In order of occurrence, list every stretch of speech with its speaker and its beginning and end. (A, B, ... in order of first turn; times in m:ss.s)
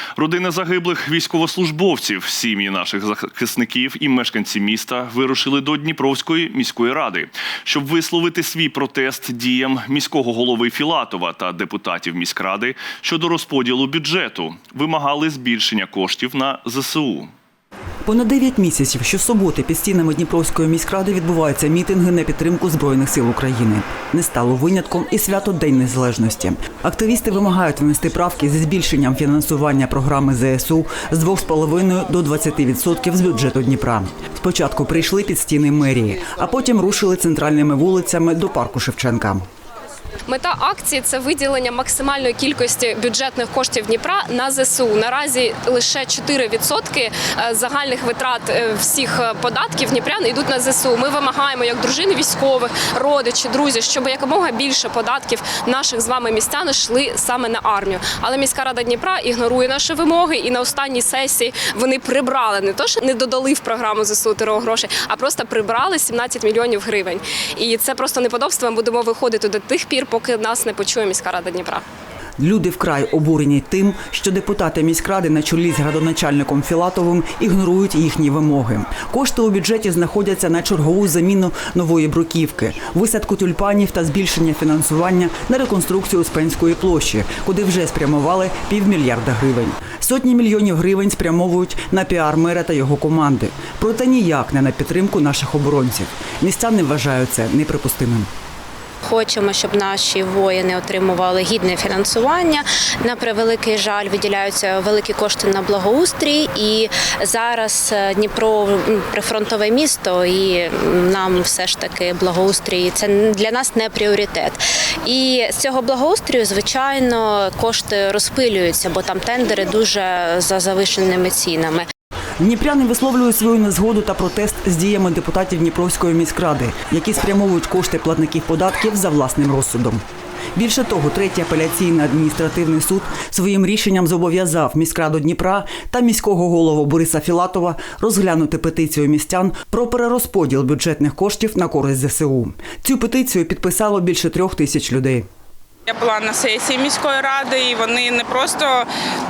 0:00.2-0:17.3 A
0:18.0-0:39.4 B
0:40.3-1:11.8 C
1:12.4-1:38.3 B
1:39.0-2:01.9 D
2:02.4-2:10.0 B
2:10.6-2:25.2 B
2:25.9-2:28.9 E